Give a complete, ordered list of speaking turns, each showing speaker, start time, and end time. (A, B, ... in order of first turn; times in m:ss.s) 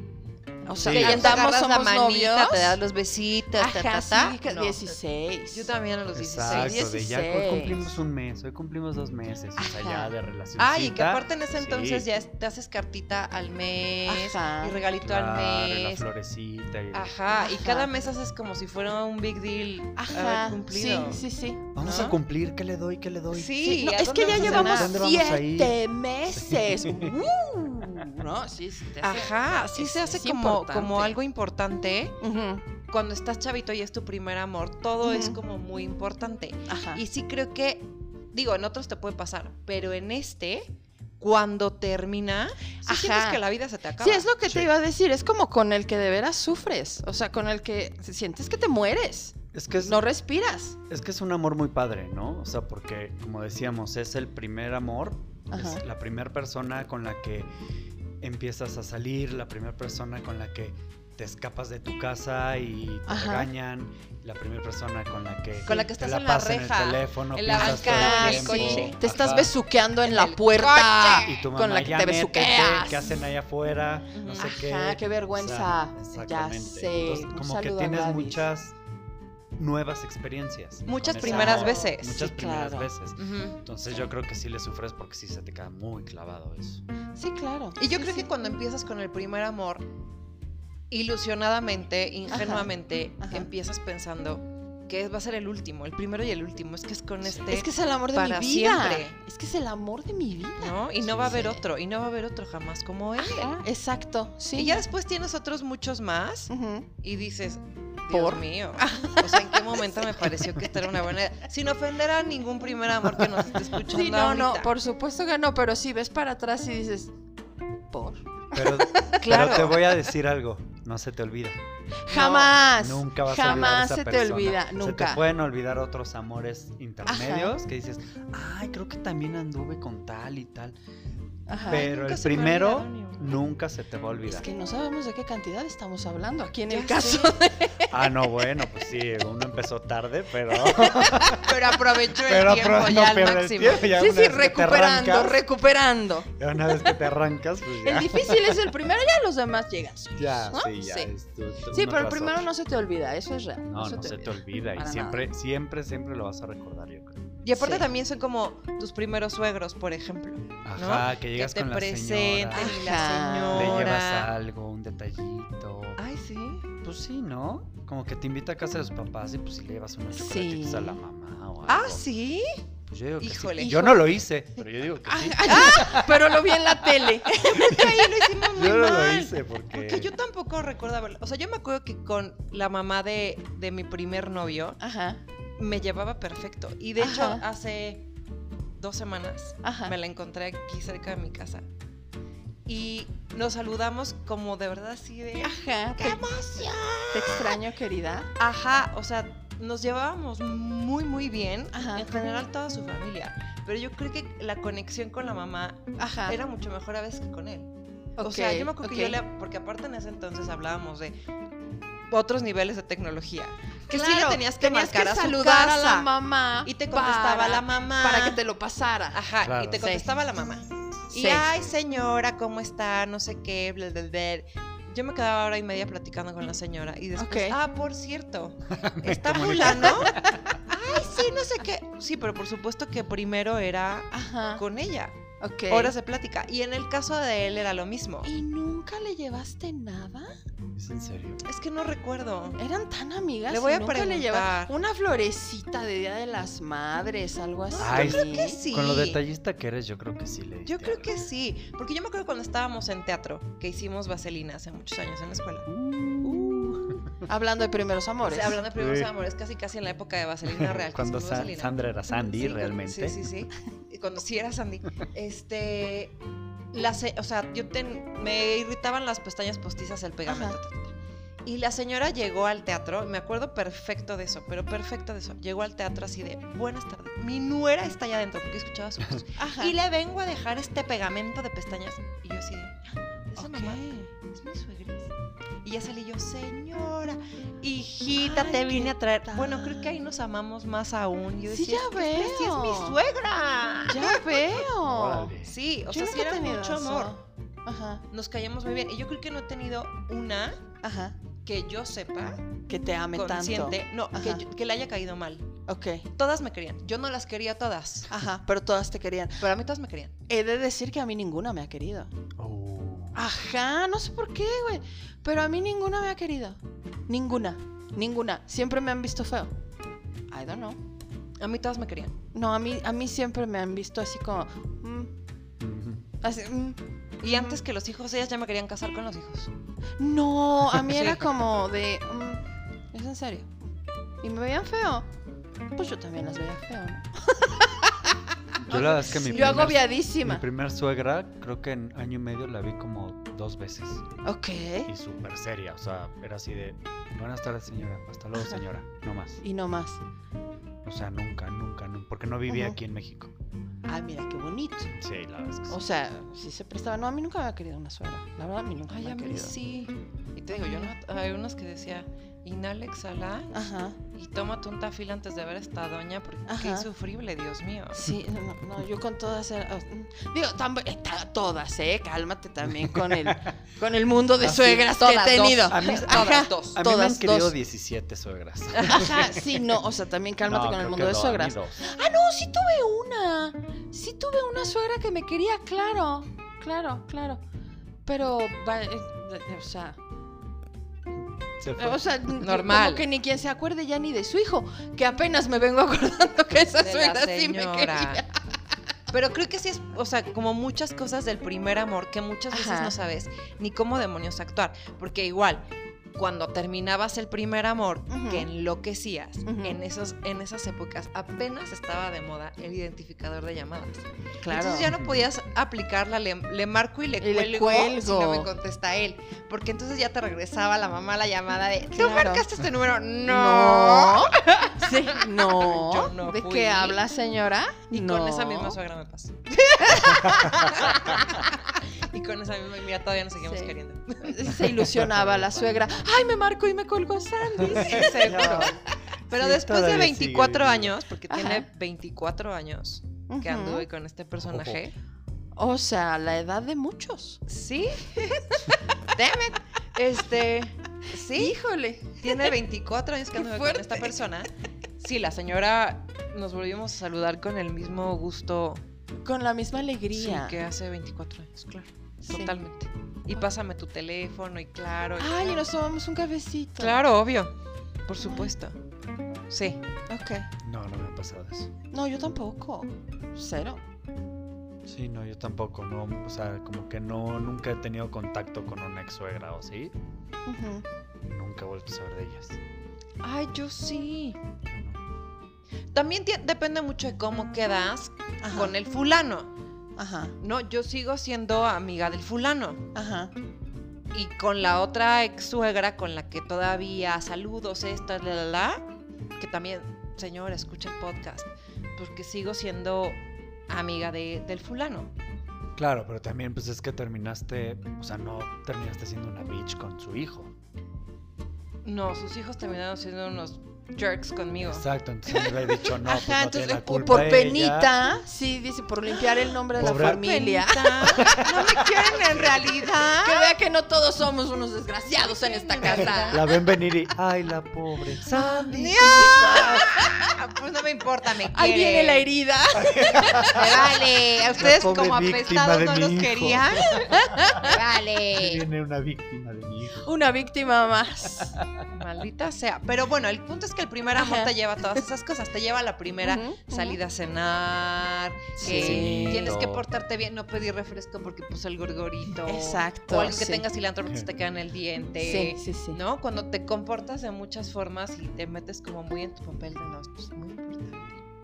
0:00.7-0:02.8 A
0:00.8-0:01.4 B
0:00.9-0:04.8 C
0:03.6-0:05.7 A
0:05.5-0:06.8 C
0:06.1-0:12.1 B
0:06.4-0:07.9 A
0:09.6-0:10.1 A
0:10.6-0:16.0 C
0:14.0-0:14.8 A
0:15.0-0:17.1 B
0:16.9-0:21.2 C
0:17.4-0:17.9 A
0:20.0-0:22.1 A
0:21.7-0:25.8 B
0:21.8-0:22.2 C
0:23.3-0:25.1 C
0:23.6-0:31.2 A
0:26.4-0:27.2 B
0:29.0-0:32.2 C
0:32.2-0:32.6 A
0:32.9-0:44.3 C
0:35.0-0:35.4 A
0:36.7-0:37.0 A
0:42.8-0:43.4 A
0:44.0-0:50.8 A
0:44.4-0:44.7 B
0:49.5-0:50.0 B
0:50.9-0:57.5 B
0:55.5-0:55.8 A
0:58.2-1:09.5 B
1:03.1-1:03.5 A
1:05.7-1:09.0 C
1:07.5-1:13.2 A
1:10.0-1:11.3 C
1:11.2-1:18.7 B
1:14.1-1:14.5 C
1:14.3-1:18.4 A
1:19.6-1:26.8 B
1:20.9-1:22.2 C
1:21.2-1:22.9 A
1:23.2-1:23.6 C
1:27.2-1:28.3 A
1:27.8-1:29.8 C
1:30.9-1:39.2 C
1:32.3-1:32.7 A
1:33.2-1:33.5 A
1:37.5-1:41.6 A
1:40.6-1:43.6 C
1:41.1-1:41.4 B
1:43.2-1:44.8 A
1:44.5-1:46.5 C
1:46.5-1:46.9 A
1:47.0-1:54.7 C
1:48.1-1:50.2 A
1:53.6-1:57.1 A
1:57.9-1:59.2 A
1:58.5-2:01.6 B
1:59.2-1:59.9 C
2:02.1-2:05.2 A
2:02.1-2:02.5 C
2:02.6-2:10.8 B
2:07.0-2:07.5 A
2:11.5-2:11.9 A
2:11.6-2:13.4 C
2:11.7-2:14.5 B
2:14.3-2:18.1 A
2:16.7-2:17.5 C
2:17.9-2:21.6 B
2:20.6-2:21.4 A
2:21.4-2:23.9 C
2:22.2-2:25.4 B
2:23.8-2:26.9 A
2:26.4-2:28.7 B
2:27.8-2:31.1 A
2:30.2-2:32.5 B
2:31.7-2:35.3 A
2:33.7-2:37.3 B
2:37.4-2:44.3 C
2:37.6-2:37.9 A
2:40.6-2:46.0 B
2:42.5-2:43.9 A
2:46.0-2:46.7 C
2:46.8-2:52.0 B
2:50.1-2:51.0 A
2:51.7-2:52.6 C
2:52.9-3:00.1 B
2:53.2-2:53.9 C
2:53.6-2:54.0 A
2:55.1-2:57.8 A
2:55.5-2:55.8 C
2:57.4-3:04.8 C
3:04.8-3:05.2 A
3:05.6-3:08.1 C
3:07.0-3:07.4 A
3:08.8-3:11.6 C
3:09.6-3:09.9 A
3:12.7-3:17.6 C
3:15.4-3:16.4 A
3:17.1-3:18.3 A
3:18.4-3:27.7 C
3:21.7-3:22.1 A
3:26.0-3:26.4 A
3:28.2-3:29.2 A
3:28.2-3:31.2 C
3:32.1-3:36.1 C
3:33.9-3:40.1 A
3:36.6-3:38.4 C
3:39.1-3:55.2 C
3:39.4-3:39.9 B
3:41.1-3:41.5 A
3:47.2-3:47.6 A
3:48.7-3:50.6 B
3:50.0-3:50.4 A
3:54.1-3:54.6 A
3:55.4-3:55.9 A
3:55.7-3:58.3 C
3:58.2-4:00.4 A
4:00.8-4:01.4 B
4:01.4-4:02.6 C
4:02.6-4:08.6 A
4:03.5-4:04.7 C
4:07.7-4:09.2 C
4:07.8-4:11.1 B
4:10.7-4:15.7 C
4:15.7-4:17.0 B
4:16.2-4:17.0 C
4:17.2-4:18.6 A
4:18.2-4:26.2 C
4:18.7-4:19.1 B
4:20.5-4:23.2 B
4:26.7-4:30.9 C
4:30.3-4:30.6 A
4:31.4-4:42.8 C
4:39.4-4:39.8 A
4:43.3-4:45.1 C
4:43.4-4:44.1 A
4:45.6-4:54.5 C
4:48.2-4:50.0 A
4:51.5-4:53.0 A
4:53.9-4:55.3 A
4:54.6-4:55.6 B
4:55.4-4:57.2 C
4:55.9-4:58.0 A
4:58.1-5:00.6 C
5:00.8-5:01.2 A
5:01.4-5:02.4 C
5:02.7-5:04.4 A
5:03.1-5:05.5 C
5:05.7-5:06.1 A
5:06.2-5:08.1 C
5:08.1-5:09.4 A
5:09.4-5:10.1 C
5:10.3-5:12.1 A
5:12.4-5:13.2 B
5:13.2-5:19.5 A
5:20.3-5:20.8 A
5:21.4-5:22.1 C
5:22.3-5:25.1 A
5:25.6-5:26.1 B
5:26.2-5:27.6 A
5:27.2-5:29.5 C
5:30.0-5:33.5 A
5:30.9-5:31.2 C
5:34.2-5:35.1 A
5:35.8-5:40.4 A
5:38.6-5:44.0 B
5:38.7-5:39.7 C
5:44.2-5:44.9 A
5:44.9-5:49.4 B
5:49.4-5:50.0 A
5:50.8-5:53.3 B
5:52.5-5:52.8 A
5:53.9-5:54.9 A
5:55.0-5:55.8 B
5:55.7-5:59.6 A
5:58.9-6:03.6 C
6:00.5-6:00.9 A
6:03.5-6:04.0 A
6:04.1-6:08.1 C
6:06.5-6:06.9 A
6:07.9-6:17.6 A
6:12.6-6:13.5 B
6:14.4-6:16.8 C
6:15.7-6:19.6 B
6:18.8-6:19.0 C
6:18.8-6:27.4 A
6:20.5-6:21.8 B
6:28.1-6:30.0 A
6:31.6-6:32.2 B
6:31.8-6:38.4 A
6:32.4-6:33.1 C
6:36.6-6:38.2 C
6:39.1-7:07.0 C
6:42.5-6:43.0 A
6:48.1-6:48.5 A
6:49.5-6:49.8 A
6:54.4-6:54.9 A
6:54.9-6:55.3 B
6:57.2-6:58.5 A
7:01.9-7:02.5 A
7:03.2-7:08.8 A
7:07.9-7:14.5 C
7:09.7-7:11.4 A
7:10.1-7:10.6 B
7:13.4-7:18.8 A
7:14.7-7:15.6 B
7:17.6-7:18.7 B
7:17.6-7:18.8 C
7:19.3-7:24.9 C
7:19.3-7:21.0 B
7:21.3-7:21.7 A
7:23.3-7:23.9 A
7:24.4-7:24.8 B
7:25.6-7:27.4 A
7:27.5-7:31.6 C
7:31.3-7:32.5 A
7:32.2-7:38.8 C
7:33.4-7:34.2 A
7:39.2-7:40.6 A
7:40.1-7:45.7 C
7:42.3-7:42.6 A
7:45.2-7:47.0 A
7:46.8-7:47.5 C
7:48.1-7:48.8 C
7:48.2-7:48.5 A
7:49.5-7:49.8 C
7:50.1-7:50.5 A
7:50.6-7:51.7 B
7:51.9-7:53.8 A
7:54.9-7:59.9 B
8:00.5-8:00.8 A
8:01.3-8:02.6 B
8:03.2-8:04.4 C
8:04.7-8:05.0 B
8:05.9-8:09.5 C
8:08.4-8:08.7 A
8:10.0-8:10.3 A
8:10.4-8:12.8 C
8:13.0-8:13.3 A
8:14.1-8:18.8 C
8:19.4-8:25.1 C
8:25.8-8:30.5 B
8:31.8-8:34.9 C
8:34.6-8:38.0 B
8:35.8-8:41.5 A
8:39.8-8:40.5 B
8:39.8-8:43.6 C
8:41.1-8:42.7 B
8:42.9-8:46.4 A
8:45.2-8:46.4 C
8:46.0-8:49.9 B
8:48.4-8:50.2 A
8:48.4-8:52.3 C
8:51.5-8:53.7 A
8:52.8-9:00.1 B
8:53.4-8:58.6 C
8:57.1-8:57.8 A
9:00.0-9:01.6 A
9:01.4-9:01.9 B
9:01.9-9:21.2 C
9:04.1-9:04.5 A
9:06.2-9:07.0 A
9:08.6-9:09.6 A
9:08.6-9:09.9 B
9:12.4-9:13.6 A
9:15.2-9:16.0 A